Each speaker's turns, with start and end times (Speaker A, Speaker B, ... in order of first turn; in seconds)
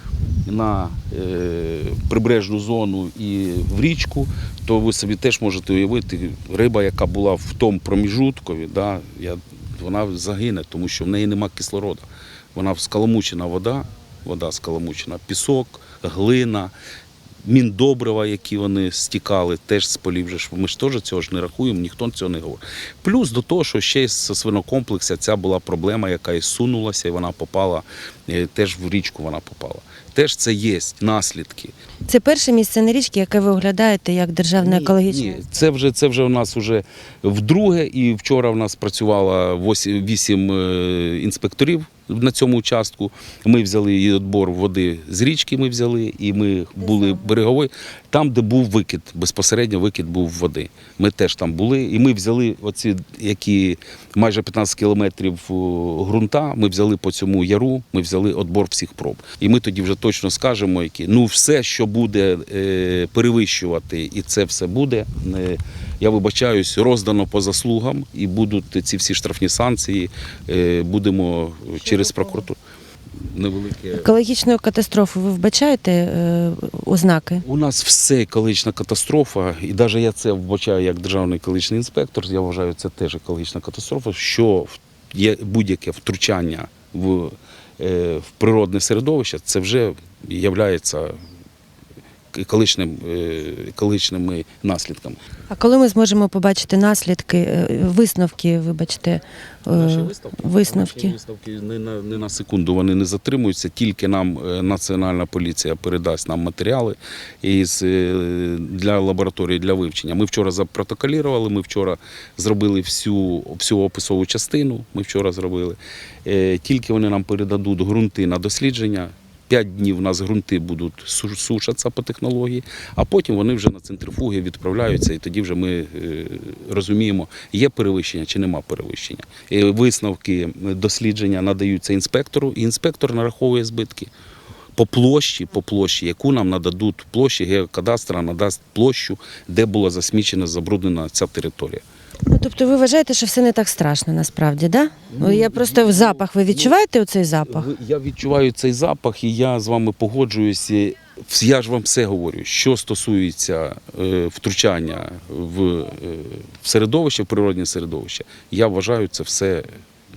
Speaker A: 0.5-16.7, 17.4-31.7, 34.6-72.5, 73.3-74.1, 77.4-91.2, 92.3-95.2, 99.7-134.1, 134.8-141.8, 145.1-146.8, 147.4-159.7
Speaker B: 32.1-35.4, 71.8-72.4, 74.0-77.4, 95.5-101.2, 142.3-147.7